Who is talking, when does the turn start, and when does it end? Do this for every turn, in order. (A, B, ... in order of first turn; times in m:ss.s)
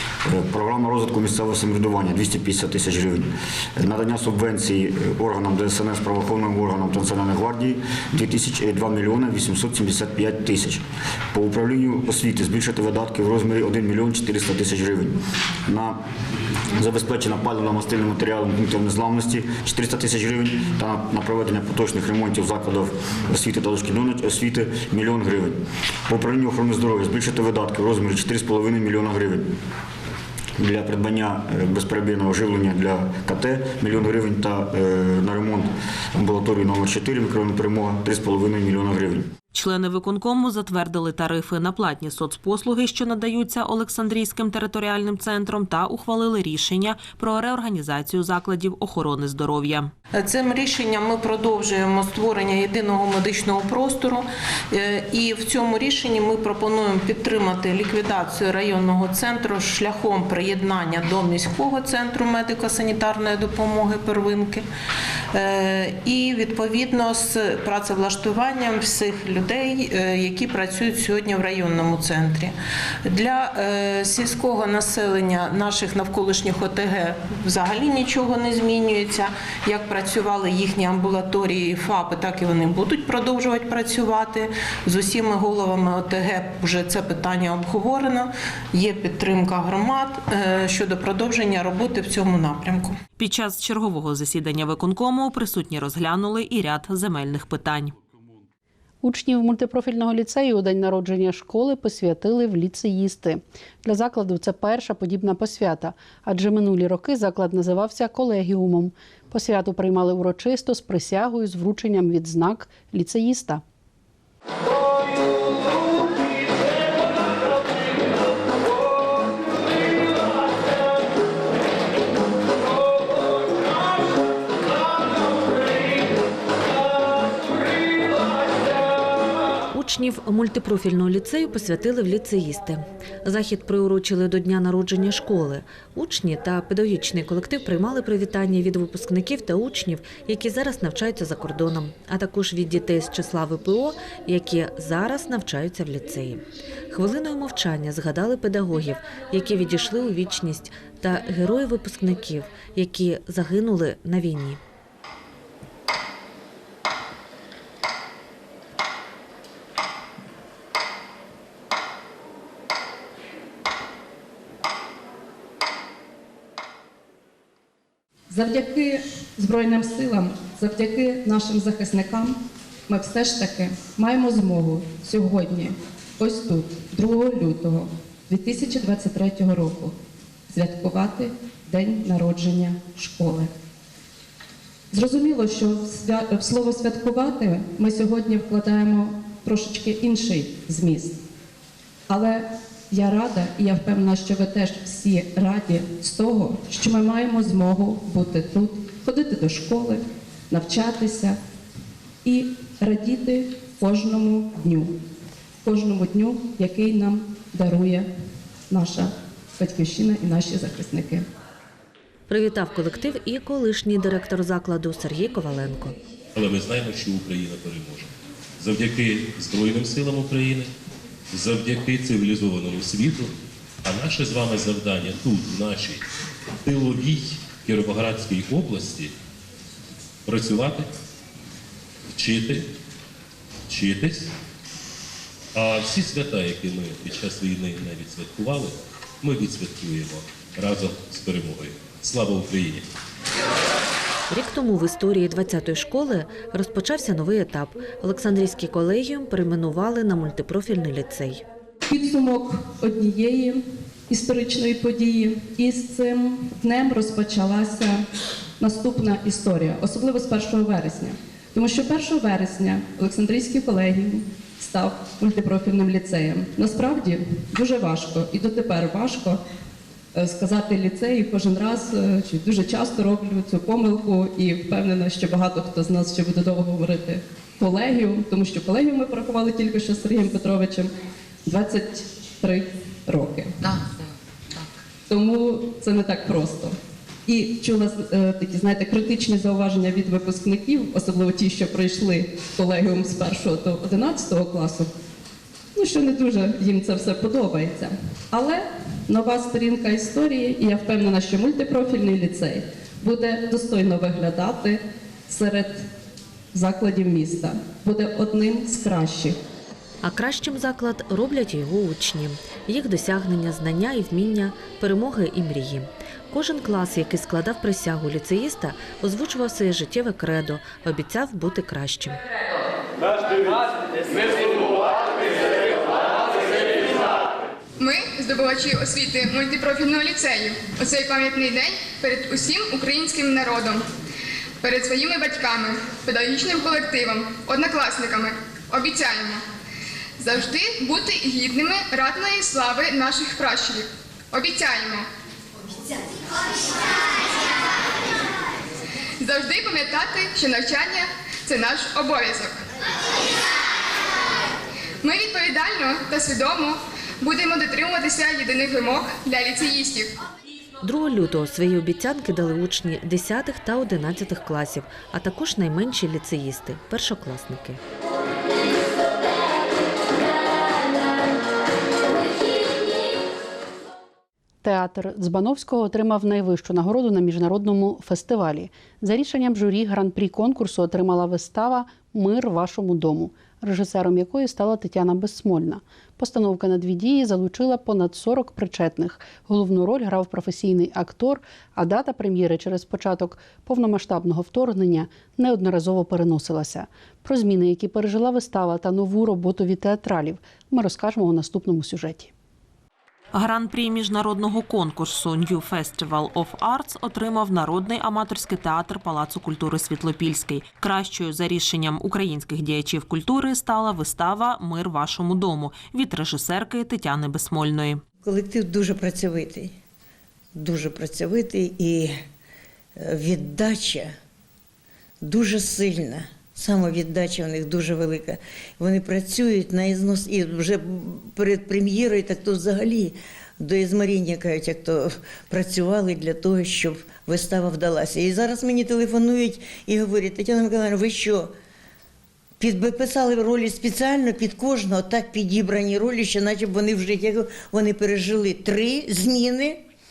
0:00.2-0:16.0 A
0:16.8-0:29.6 A
0:30.6-0:39.3 A
0:39.5-0:49.9 B
0:50.1-1:04.7 C
1:05.3-1:12.6 C
1:13.1-1:33.0 C
1:33.2-1:37.9 B
1:39.0-1:53.6 D
2:09.7-2:34.6 E
2:48.3-2:59.9 F
3:00.5-3:03.5 F
3:04.9-3:11.2 F
3:12.1-3:21.4 F
3:22.2-3:25.0 F
3:25.6-3:28.1 F
3:28.7-3:31.3 F
3:32.3-3:36.0 E
3:36.4-3:40.7 G
3:41.3-3:46.0 G
3:46.6-3:49.1 G
3:50.3-3:50.9 G
3:52.1-3:52.7 G
3:53.7-3:54.3 G
3:55.5-4:02.9 G
4:04.3-4:11.4 E
4:11.9-4:18.0 F
4:18.6-4:29.4 F
4:30.1-4:40.9 F
4:41.4-4:43.6 F
4:45.1-4:46.8 F
4:47.3-4:54.9 F
4:55.8-5:05.8 F
5:06.5-5:09.4 F
5:10.0-5:22.2 E
5:27.8-5:33.9 H
5:34.6-5:39.4 H
5:40.2-5:45.1 H
5:49.2-5:52.6 H
5:55.0-6:00.1 H
6:00.8-6:07.8 E
6:14.6-6:42.3 D
6:43.3-6:58.0 B
6:58.2-6:59.7 I
7:00.6-7:02.1 I
7:03.0-7:04.1 I
7:05.2-7:21.5 I
7:22.6-7:29.8 I